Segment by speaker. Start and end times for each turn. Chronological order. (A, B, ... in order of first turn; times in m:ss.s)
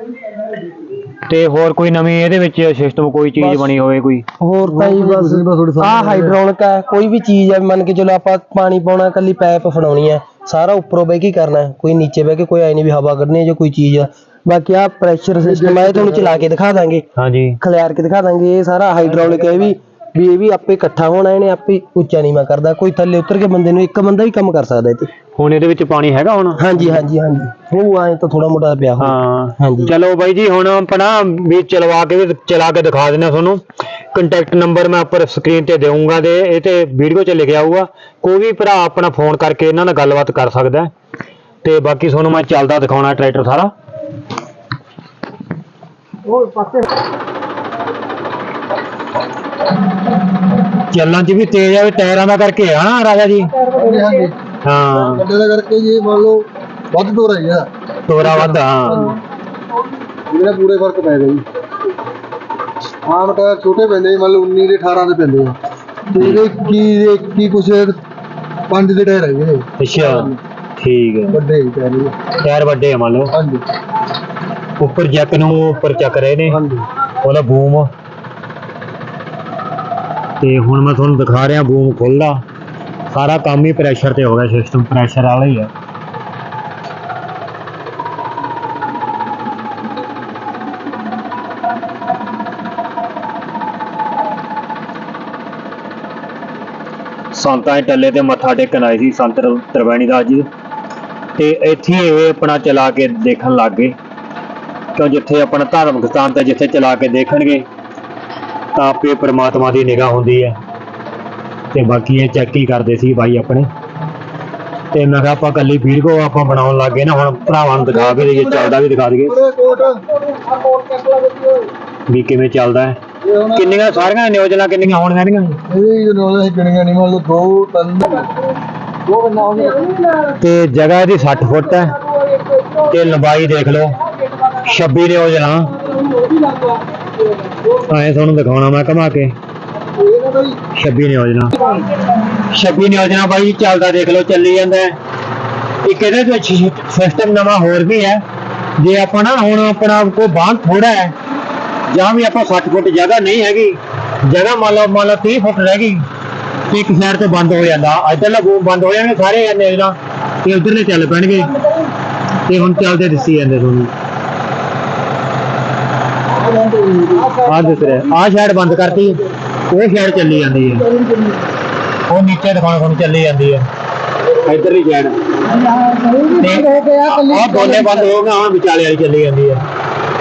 0:01.3-0:04.2 A
0:03.4-0:03.7 B
0:04.4-0:17.0 B
0:04.6-0:06.4 C
0:15.4-0:16.5 C
0:17.2-0:17.6 A
0:17.6-0:25.1 B
0:25.4-0:26.9 A
0:26.6-0:29.9 B
0:29.0-0:33.6 A
0:34.1-0:40.9 A
0:41.6-0:43.7 A
0:46.4-0:46.8 C
0:50.7-0:53.7 A
0:53.7-0:54.4 C
0:54.6-0:55.3 A
0:55.0-0:57.7 C
0:58.1-0:59.2 A
0:58.2-0:59.1 C
1:00.3-1:01.4 C
1:03.1-1:05.6 C
1:06.1-1:08.0 C
1:06.2-1:06.4 A
1:08.7-1:10.4 C
1:09.8-1:11.4 A
1:11.3-1:12.2 C
1:12.4-1:13.3 A
1:13.3-1:13.6 C
1:14.8-1:16.6 A
1:16.5-1:16.9 C
1:17.2-1:17.9 A
1:20.4-1:22.4 A
1:23.1-1:25.7 A
1:37.3-1:40.5 A
1:41.4-1:44.0 A
1:45.0-1:47.7 A
1:48.8-1:50.6 A
1:51.7-1:53.7 A
1:54.9-1:59.4 A
1:58.0-1:58.8 C
1:59.3-2:01.7 C
2:02.1-2:05.6 A
2:03.2-2:03.9 C
2:05.7-2:08.4 C
2:09.1-2:10.1 C
2:10.4-2:12.0 A
2:12.8-2:15.8 A
2:16.2-2:16.8 C
2:17.7-2:19.4 A
2:20.0-2:20.6 C
2:20.7-2:21.7 A
2:22.3-2:25.0 A
2:25.8-2:28.2 A
2:28.8-2:31.2 A
2:31.9-2:36.0 A
2:36.7-2:41.6 A
2:42.5-2:43.9 A
2:46.5-2:47.3 C
2:47.4-2:50.9 A
2:52.1-2:53.7 A
2:54.3-2:55.2 A
2:55.8-2:57.7 C
2:56.4-2:59.6 A